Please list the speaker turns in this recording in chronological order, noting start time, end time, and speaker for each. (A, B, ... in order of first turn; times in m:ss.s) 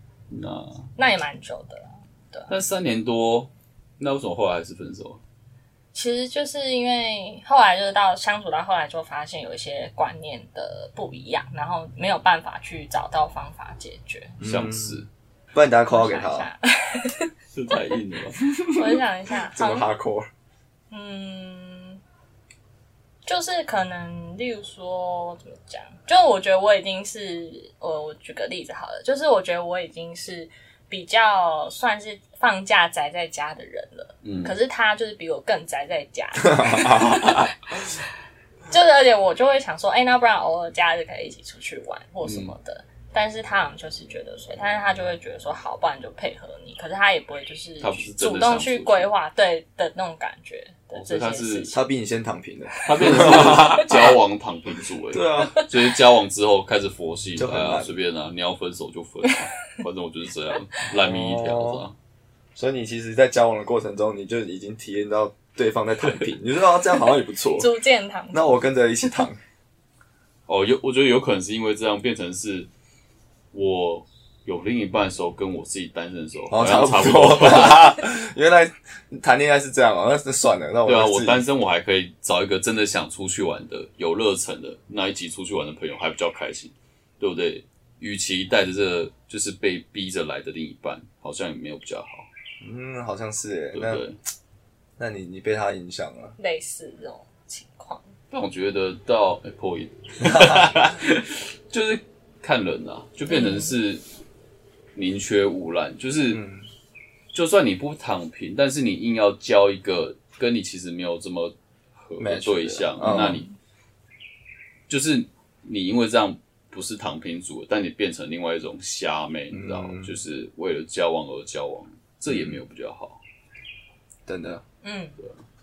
0:00.3-0:00.9 A
0:01.0-0:02.5 B
0:02.5-0:05.2 A
0:05.9-0:14.4 B
0:14.4-0:15.0 C
0:14.4-0:15.1 A
0:15.5-0:16.5 C
0:15.9-0:17.3 B
0:17.5-0:18.4 A
0:18.6-0:19.0 C
0:18.7-0:19.9 B
0:19.5-0:20.3 C
0:20.9-0:22.0 B
0:23.2-0:38.0 B
0:34.2-0:34.5 A
0:36.4-0:37.4 C
0:38.7-0:51.8 B
0:42.2-0:42.5 A
0:47.8-0:49.1 A
0:50.9-0:51.7 A
0:51.7-0:54.2 C
0:52.8-1:02.0 A
0:53.0-0:53.8 B
0:55.1-0:55.7 C
0:55.4-0:55.7 B
0:57.4-0:57.9 C
1:00.9-1:01.9 C
1:02.6-1:07.7 C
1:07.6-1:09.2 B
1:08.3-1:09.4 C
1:10.5-1:12.7 A
1:13.5-1:18.0 A
1:16.5-1:21.5 C
1:20.9-1:32.3 A
1:32.6-1:34.0 C
1:33.7-1:34.2 A
1:35.0-1:36.4 C
1:36.4-1:38.1 B
1:38.3-1:44.0 A
1:40.2-1:40.7 C
1:43.3-1:43.7 B
1:45.0-1:46.4 A
1:46.3-1:46.7 C
1:47.3-1:53.4 A
1:52.2-1:53.4 C
1:53.0-1:53.6 B
1:54.9-2:03.2 A
1:59.5-2:00.2 C
2:02.3-2:02.6 C
2:04.3-2:04.6 C
2:04.8-2:05.2 B